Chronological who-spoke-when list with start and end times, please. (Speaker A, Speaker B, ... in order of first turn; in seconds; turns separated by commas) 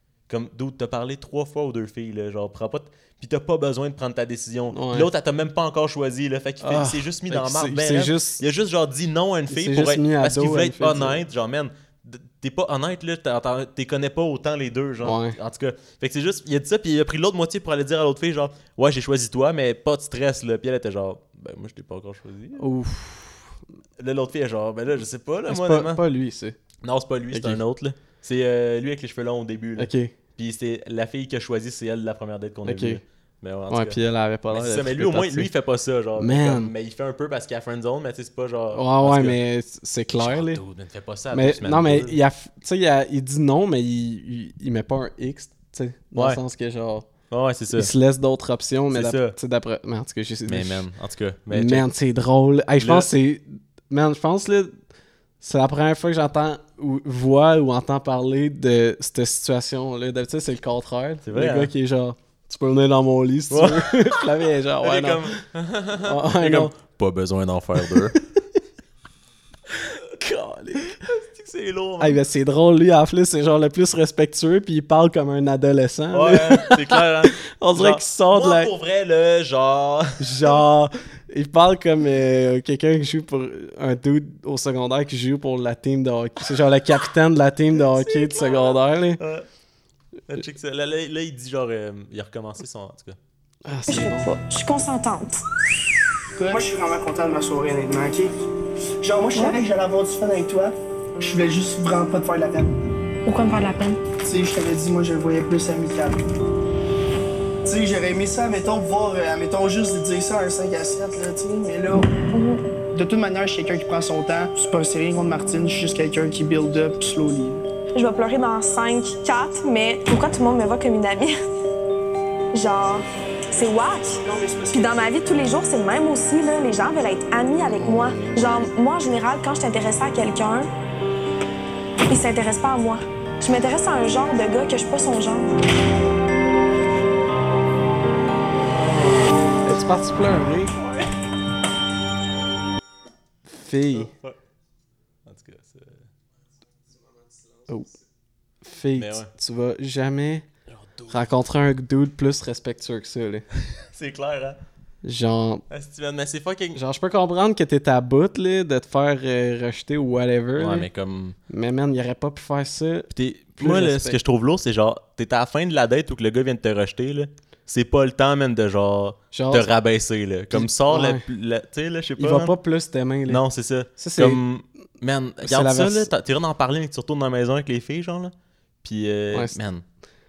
Speaker A: 0.3-22.6, Speaker B: 4.7-5.1, Speaker B: 6.6-8.4, Speaker B: 9.5-11.2, Speaker B: 15.0-15.4, Speaker B: 22.6-23.5, Speaker A: 24.0-26.0, Speaker B: 25.5-26.6, Speaker A: 26.8-34.0, Speaker B: 27.3-27.6, Speaker B: 29.8-30.1, Speaker B: 32.6-33.0, Speaker B: 33.7-35.5, Speaker A: 34.5-39.4, Speaker B: 36.2-36.7, Speaker B: 38.7-40.6, Speaker A: 40.1-42.2, Speaker B: 41.3-47.1, Speaker A: 46.1-46.4, Speaker A: 47.3-47.9, Speaker B: 47.7-50.9, Speaker A: 48.9-49.3, Speaker A: 50.5-51.9, Speaker B: 51.5-54.8, Speaker A: 52.8-53.1, Speaker B: 55.4-65.4, Speaker A: 61.2-61.7, Speaker A: 63.5-64.3, Speaker A: 64.8-68.2, Speaker B: 66.0-66.7, Speaker B: 67.8-68.2, Speaker B: 70.1-71.0, Speaker A: 70.8-72.2, Speaker B: 72.0-78.7, Speaker A: 76.1-80.6, Speaker B: 80.2-89.2, Speaker A: 87.9-89.5, Speaker A: 90.3-93.2, Speaker B: 93.6-94.3, Speaker C: 93.9-95.4, Speaker D: 96.4-98.3, Speaker D: 99.0-102.7, Speaker C: 103.2-104.0, Speaker D: 104.2-106.2, Speaker D: 107.6-112.1, Speaker C: 112.3-112.6, Speaker D: 112.9-117.6, Speaker C: 117.9-121.4, Speaker C: 122.5-130.7, Speaker D: 124.2-125.1, Speaker B: 127.8-128.7, Speaker C: 132.1-135.5, Speaker B: 139.6-140.8, Speaker B: 143.4-144.1, Speaker A: 143.9-144.4, Speaker A: 145.2-146.1, Speaker B: 147.7-147.9, Speaker B: 148.6-150.5, Speaker A: 148.9-149.3, Speaker A: 150.7-151.3, Speaker B: 151.1-153.4, Speaker A: 153.6-154.6, Speaker B: 155.0-155.6, Speaker A: 155.7-156.8, Speaker B: 156.7-160.9, Speaker A: 160.6-161.4, Speaker B: 161.5-164.2, Speaker A: 163.1-172.5, Speaker B: 169.3-169.7, Speaker B: 170.5-171.2, Speaker B: 172.2-173.4, Speaker A: 173.3-179.8, Speaker B: 174.0-174.4, Speaker B: 175.4-176.1, Speaker B: 179.3-179.6